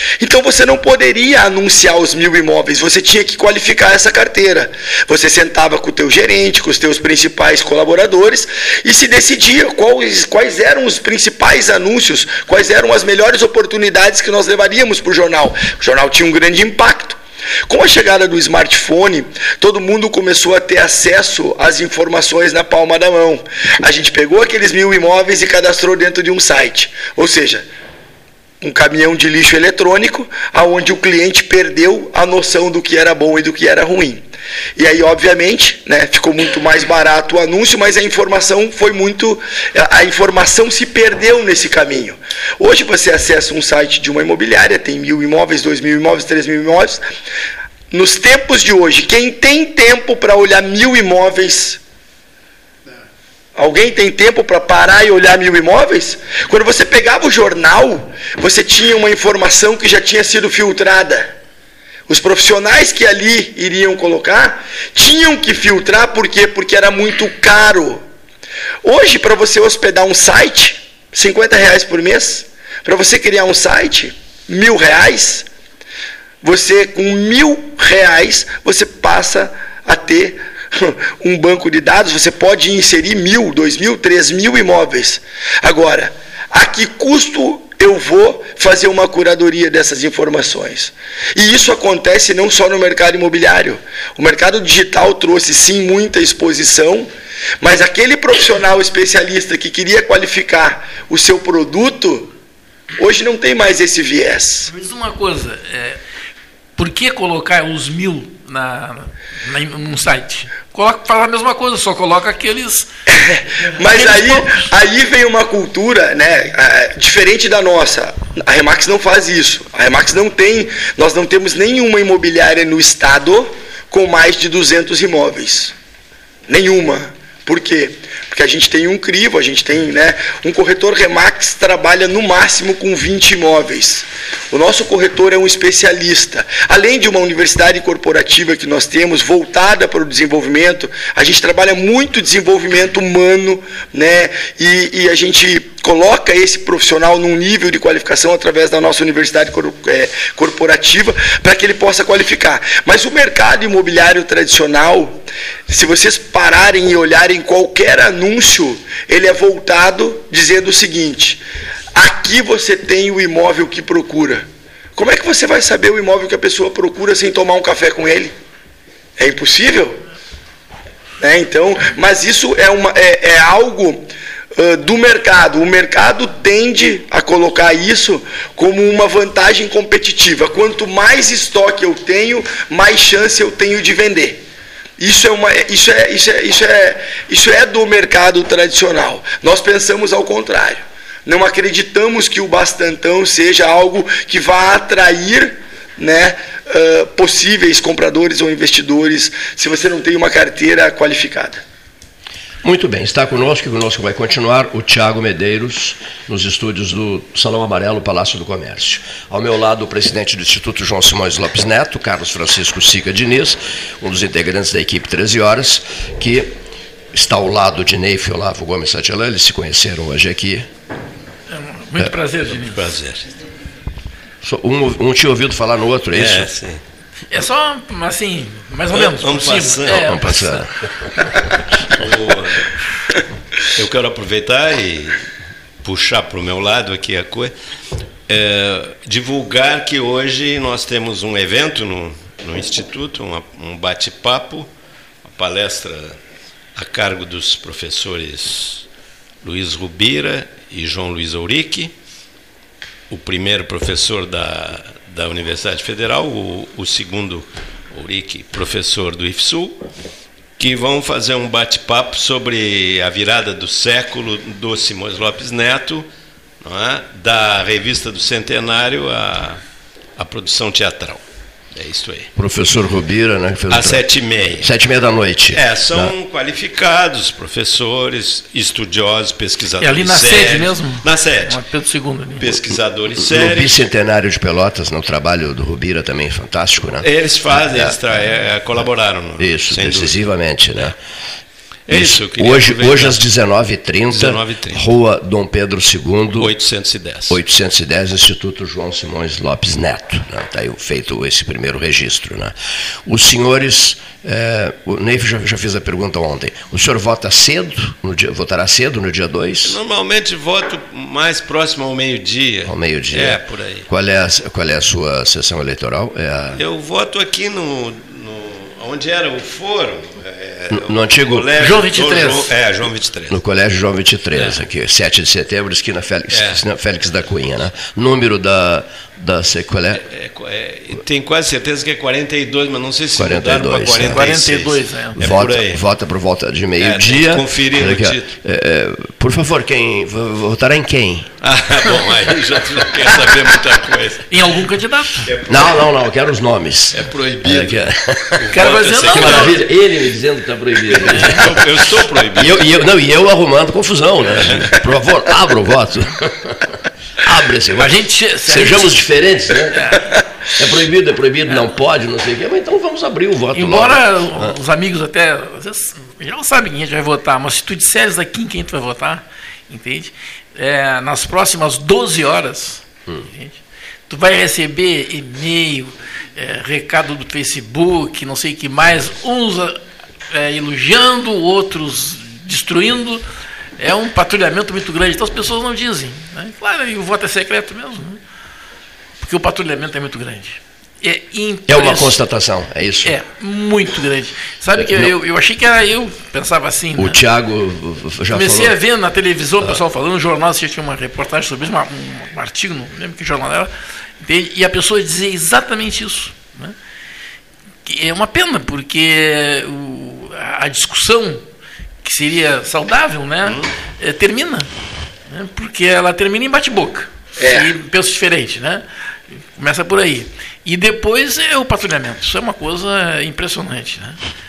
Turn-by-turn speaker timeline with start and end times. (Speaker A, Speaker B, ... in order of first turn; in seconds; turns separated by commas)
Speaker A: 0.2-27.6, Speaker A: 28.6-34.2, Speaker A: 34.8-47.0, Speaker A: 47.9-51.8, Speaker A: 53.5-61.3, Speaker A: 62.1-68.0, Speaker A: 68.8-75.4, Speaker A: 76.4-97.1, Speaker A: 97.6-102.3, Speaker A: 103.0-104.7, Speaker B: 104.7-106.0, Speaker B: 106.8-112.9, Speaker A: 113.1-125.7, Speaker B: 113.7-114.7, Speaker A: 126.5-161.4, Speaker A: 161.9-168.3, Speaker A: 169.2-170.0, Speaker A: 171.2-184.4, Speaker A: 185.0-201.6, Speaker C: 202.6-216.5, Speaker C: 217.1-220.7, Speaker B: 221.5-222.8, Speaker D: 222.6-223.3, Speaker C: 224.4-226.5, Speaker D: 226.1-226.8, Speaker B: 227.3-230.6, Speaker D: 228.9-230.3, Speaker C: 229.9-230.7, Speaker D: 231.9-232.7, Speaker D: 233.7-235.2, Speaker D: 235.8-237.5, Speaker D: 238.3-244.7, Speaker D: 245.2-246.2, Speaker D: 246.7-248.8, Speaker D: 249.4-251.9, Speaker D: 253.1-259.8, Speaker D: 260.6-266.1, Speaker D: 266.6-269.6, Speaker D: 270.2-271.2, Speaker D: 271.7-272.3, Speaker C: 272.3-274.0, Speaker D: 273.7-274.7, Speaker C: 274.6-276.1, Speaker D: 275.5-281.6, Speaker B: 279.8-282.6, Speaker D: 282.4-283.8, Speaker C: 283.2-287.1, Speaker D: 287.0-290.1, Speaker C: 287.7-288.0, Speaker C: 289.4-291.0, Speaker D: 291.9-293.2, Speaker C: 291.9-296.5, Speaker D: 294.1-294.8, Speaker D: 296.4-297.4, Speaker C: 297.3-302.5, Speaker C: 303.1-309.8, Speaker D: 309.6-313.9, Speaker C: 312.6-316.6, Speaker D: 316.6-323.4, Speaker C: 320.7-321.5, Speaker B: 321.6-322.5, Speaker C: 323.3-330.0, Speaker D: 326.3-326.6, Speaker D: 330.0-335.8, Speaker C: 333.2-334.6, Speaker B: 334.1-335.2, Speaker C: 335.1-341.3, Speaker D: 336.8-338.3, Speaker D: 341.4-344.3, Speaker B: 344.3-345.3, Speaker D: 345.2-345.8, Speaker C: 345.5-351.6, Speaker D: 346.9-347.8, Speaker D: 348.4-349.6, Speaker B: 348.5-349.6, Speaker B: 351.0-351.5, Speaker D: 351.0-352.6, Speaker C: 352.4-356.7, Speaker C: 357.2-357.9, Speaker B: 357.8-359.0, Speaker C: 358.5-360.0, Speaker B: 359.7-360.1, Speaker C: 360.6-364.6, Speaker B: 363.5-379.8, Speaker B: 380.3-383.2, Speaker B: 383.8-388.2, Speaker B: 389.2-392.2, Speaker C: 391.7-393.1, Speaker B: 393.0-397.2, Speaker C: 394.7-395.1, Speaker C: 397.0-398.7, Speaker B: 398.3-406.7, Speaker B: 407.9-411.4, Speaker B: 412.0-414.7, Speaker D: 413.4-413.7, Speaker B: 415.3-418.8, Speaker A: 417.4-417.7, Speaker B: 419.6-424.2